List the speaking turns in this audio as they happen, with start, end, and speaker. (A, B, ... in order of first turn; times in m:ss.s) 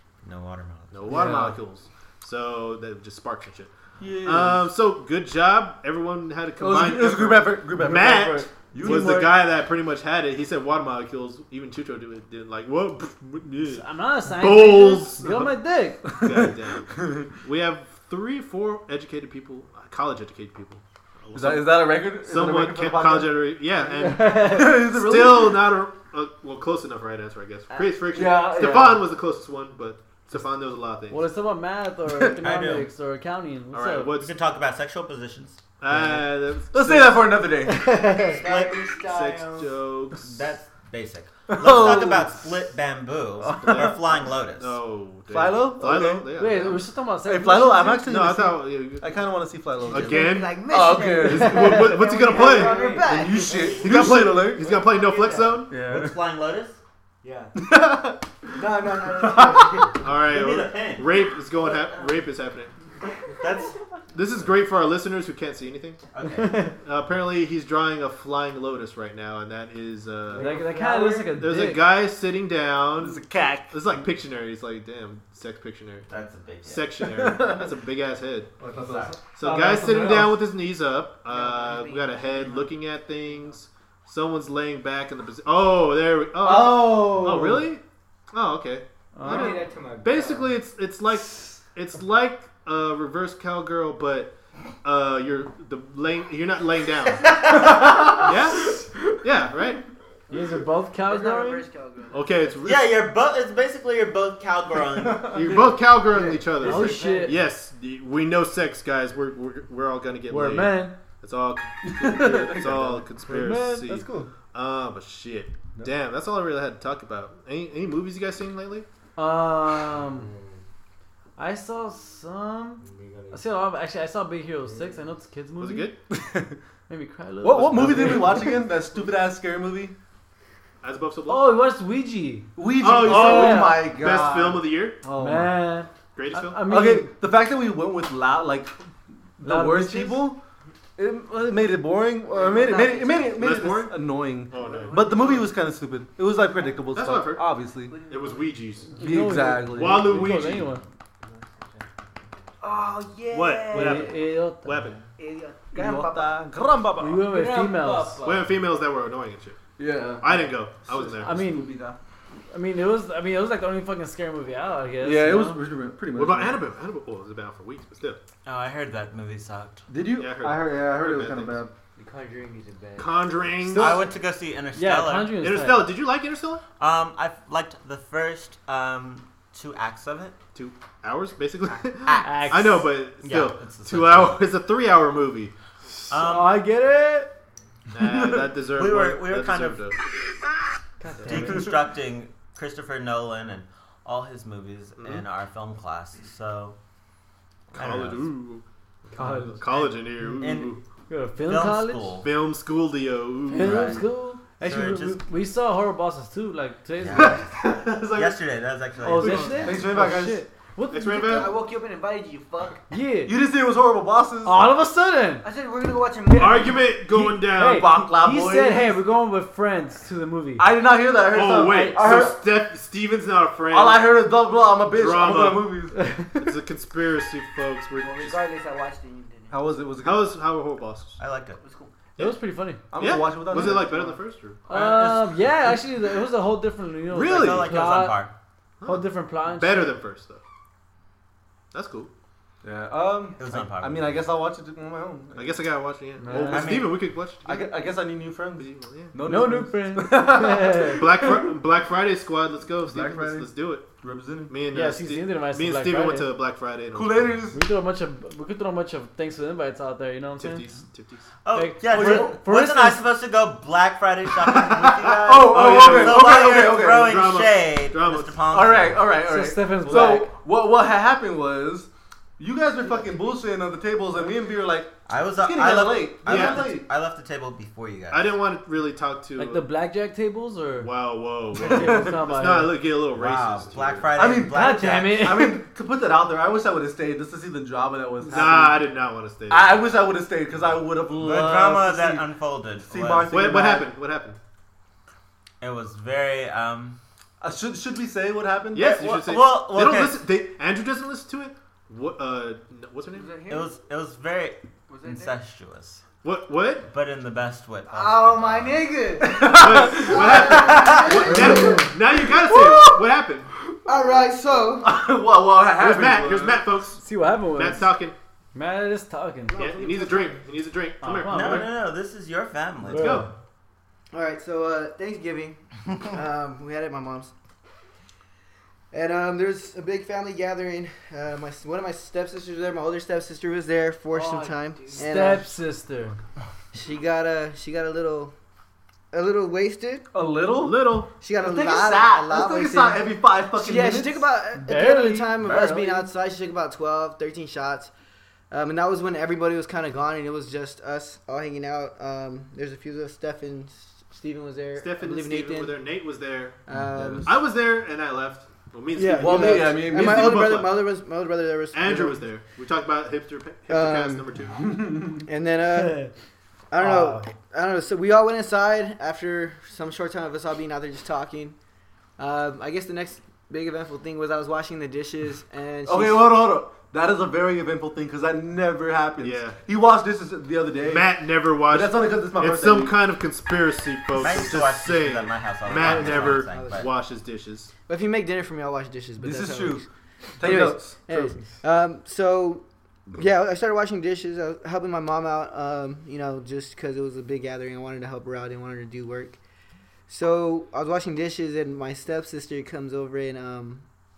0:00.2-0:01.2 A
0:00.9-0:15.6 B
0:01.1-0:01.6 C
0:01.1-0:01.5 D
0:04.0-0:04.6 C
0:06.6-0:09.4 C
0:08.7-0:09.3 D
0:13.6-0:16.1 D
0:16.1-0:31.2 B
0:16.3-0:17.3 C
0:21.3-0:23.4 C
0:24.0-0:25.0 D
0:24.3-0:25.7 C
0:28.1-0:29.0 C
0:31.1-0:34.1 D
0:32.4-0:32.9 A
0:33.7-0:34.3 B
0:34.1-0:35.6 A
0:35.8-0:37.5 B
0:35.9-0:37.9 C
0:37.6-0:38.4 D
0:38.4-0:38.8 A
0:38.4-0:39.6 E
0:38.9-0:40.4 B
0:40.1-0:44.8 A
0:41.5-0:42.4 C
0:43.4-0:44.0 C
0:43.6-0:46.8 B
0:45.3-0:46.3 C
0:46.3-0:48.1 D
0:47.2-0:51.9 C
0:48.0-0:49.1 B
0:49.9-0:53.9 E
0:49.9-0:50.6 B
0:51.2-0:52.9 B
0:52.6-0:52.9 F
0:53.0-0:54.7 C
0:53.8-0:55.8 B
0:55.0-0:55.6 E
0:55.7-0:56.2 C
0:55.7-0:56.8 A
0:57.2-0:57.5 E
0:57.6-0:58.6 C
0:58.5-1:00.0 E
0:59.3-0:59.7 C
0:59.9-1:02.7 B
1:00.1-1:02.2 A
1:03.3-1:03.8 A
1:04.1-1:06.0 B
1:06.1-1:06.7 A
1:06.3-1:06.7 D
1:06.8-1:10.6 B
1:10.3-1:11.8 D
1:10.4-1:11.4 E
1:11.3-1:16.1 B
1:13.0-1:13.8 C
1:16.1-1:17.0 A
1:16.6-1:18.5 B
1:17.1-1:17.7 C
1:18.6-1:20.4 C
1:18.8-1:19.1 A
1:19.3-1:37.4 B
1:21.7-1:22.0 E
1:26.4-1:27.7 C
1:29.2-1:29.7 D
1:29.2-1:30.5 F
1:37.2-1:38.2 A
1:37.5-1:38.9 C
1:38.0-1:39.8 B
1:40.3-1:41.7 D
1:41.1-1:42.2 E
1:42.1-1:43.0 B
1:42.6-1:45.5 A
1:44.9-1:45.8 C
1:45.2-1:58.9 B
1:46.1-1:47.3 E
1:46.6-1:47.4 D
1:50.3-1:51.0 D
1:51.8-1:54.3 C
1:59.2-2:00.3 D
1:59.8-2:00.6 F
2:01.4-2:05.9 D
2:02.8-2:03.4 F
2:04.6-2:05.1 F
2:05.6-2:05.9 B
2:06.1-2:06.6 C
2:06.9-2:08.7 D
2:07.4-2:09.9 C
2:10.8-2:11.6 B
2:11.3-2:13.9 D
2:12.6-2:15.6 C
2:12.8-2:15.0 B
2:15.2-2:17.1 D
2:16.1-2:16.6 B
2:16.7-2:18.7 C
2:19.4-2:20.4 C
2:19.4-2:20.3 D
2:21.0-2:27.9 C
2:22.5-2:23.1 E
2:23.2-2:25.1 B
2:24.9-2:25.2 E
2:26.9-2:27.5 B
2:28.1-2:30.8 B
2:29.0-2:30.8 D
2:29.0-2:30.6 C
2:32.6-2:34.0 E
2:33.3-2:35.0 B
2:33.7-2:34.8 D
2:35.2-2:36.3 E
2:35.7-2:37.6 C
2:37.0-2:38.2 D
2:37.6-2:38.4 E
2:38.2-2:39.6 B
2:39.8-2:40.3 C
2:40.2-2:41.4 B
2:40.8-2:42.0 C
2:41.2-2:41.8 D
2:42.5-2:45.6 D
2:45.0-2:46.6 C
2:46.1-2:48.2 B
2:48.4-2:49.8 A
2:49.9-2:51.7 C
2:50.2-2:51.6 B
2:52.0-2:53.4 F
2:53.0-2:54.1 B
2:53.7-2:55.4 A
2:54.7-2:56.0 D
2:55.4-2:56.6 B
2:56.8-3:00.3 A
3:00.6-3:05.5 B
3:02.0-3:04.4 A
3:02.2-3:02.8 D
3:06.1-3:06.6 A
3:06.1-3:07.4 D
3:07.9-3:10.0 B
3:08.0-3:08.3 C
3:08.7-3:09.9 A
3:11.0-3:11.8 D
3:11.2-3:16.8 A
3:11.3-3:11.6 C
3:15.0-3:15.2 B
3:17.7-3:20.8 B
3:17.7-3:18.3 A
3:19.2-3:20.0 D
3:19.2-3:19.5 C
3:20.4-3:20.8 A
3:21.1-3:22.2 D
3:21.4-3:22.3 A
3:22.2-3:24.0 B
3:23.5-3:27.5 D
3:23.6-3:24.0 A
3:24.6-3:25.2 A
3:27.0-3:27.5 A
3:27.1-3:28.4 B
3:28.1-3:29.9 A
3:29.0-3:31.6 D
3:29.2-3:29.6 B
3:29.2-3:30.4 C
3:30.9-3:31.6 B
3:31.3-3:32.8 E
3:32.9-3:33.4 D
3:33.2-3:34.7 C
3:34.4-3:35.5 D
3:35.4-3:36.7 E
3:36.3-3:40.8 D
3:36.3-3:38.0 B
3:37.2-3:39.0 C
3:40.6-3:42.4 C
3:41.3-3:44.3 B
3:41.6-3:42.3 D
3:43.7-3:46.0 C
3:44.9-3:45.8 B
3:45.9-3:46.5 D
3:46.3-3:48.4 B
3:48.0-3:49.5 E
3:49.5-3:50.3 C
3:50.0-3:51.2 B
3:51.2-3:51.6 A
3:52.2-3:52.8 D
3:52.9-3:54.0 C
3:53.0-3:54.6 B
3:53.7-3:54.0 E
3:54.7-3:58.2 D
3:54.7-3:55.3 A
3:57.1-3:57.7 B
3:57.2-3:58.3 A
3:58.8-4:00.4 B
3:58.8-4:00.0 D
4:01.7-4:02.1 B
4:02.6-4:05.6 C
4:03.4-4:04.2 A
4:05.4-4:07.7 B
4:06.2-4:06.6 D
4:06.3-4:06.9 C
4:06.5-4:07.0 A
4:07.4-4:11.6 C
4:08.6-4:09.1 B
4:09.2-4:11.1 D
4:11.0-4:13.9 B
4:12.8-4:14.6 C
4:14.5-4:17.4 B
4:14.7-4:16.3 D
4:16.9-4:17.6 C
4:17.5-4:20.7 D
4:20.4-4:21.3 B
4:21.4-4:29.2 A
4:21.5-4:23.0 D
4:21.9-4:22.4 C
4:24.4-4:28.5 B
4:25.2-4:27.3 C
4:28.5-4:36.9 C
4:29.2-4:30.3 D
4:35.0-4:38.3 A
4:36.3-4:36.7 B
4:38.1-4:39.6 B
4:39.4-4:40.9 D
4:40.8-4:44.1 B
4:41.6-4:42.8 D
4:41.7-4:42.1 C
4:43.1-4:45.4 A
4:44.2-4:48.8 C
4:44.4-4:45.6 D
4:48.3-4:49.8 B
4:49.5-4:52.3 C
4:51.1-4:53.4 A
4:52.8-4:53.9 C
4:53.3-4:54.4 B
4:55.6-4:57.0 A
4:57.4-4:58.9 C
4:58.7-5:03.4 B
4:58.8-5:00.2 A
5:03.2-5:03.7 E
5:03.5-5:06.0 A
5:06.2-5:06.9 B
5:06.9-5:08.9 A
5:07.9-5:11.9 E
5:09.2-5:10.4 C
5:09.4-5:13.5 B
5:11.3-5:11.8 C
5:13.8-5:14.9 E
5:14.8-5:16.6 C
5:15.7-5:18.2 B
5:17.0-5:17.9 D
5:18.5-5:19.6 D
5:19.5-5:20.4 E
5:19.6-5:21.8 B
5:21.0-5:21.8 D
5:21.3-5:23.3 A
5:22.8-5:23.3 D
5:22.9-5:23.3 B
5:24.1-5:27.3 E
5:28.9-5:35.5 E
5:34.9-5:36.2 D
5:36.7-5:38.3 E
5:39.1-5:40.1 E
5:40.1-5:44.3 C
5:40.6-5:41.1 B
5:41.2-5:47.9 E
5:44.6-5:46.1 D
5:48.5-5:55.8 E
5:54.8-5:56.6 B
5:56.7-5:57.4 E
5:56.8-5:57.3 C
5:57.2-6:00.8 B
5:58.9-6:02.2 E
5:59.2-6:00.6 C
6:01.7-6:04.8 B
6:03.7-6:04.3 E
6:04.7-6:05.2 C
6:05.0-6:06.1 E
6:06.7-6:11.6 E
6:06.8-6:07.2 C
6:06.8-6:07.2 D
6:12.2-6:16.4 E
6:15.9-6:21.1 C
6:19.2-6:19.6 B
6:20.8-6:27.7 B
6:21.6-6:23.0 C
6:24.2-6:26.9 A
6:25.8-6:26.9 E
6:27.9-6:29.9 E
6:29.2-6:29.8 C
6:30.4-6:31.4 C
6:30.4-6:39.4 E
6:40.1-6:43.8 E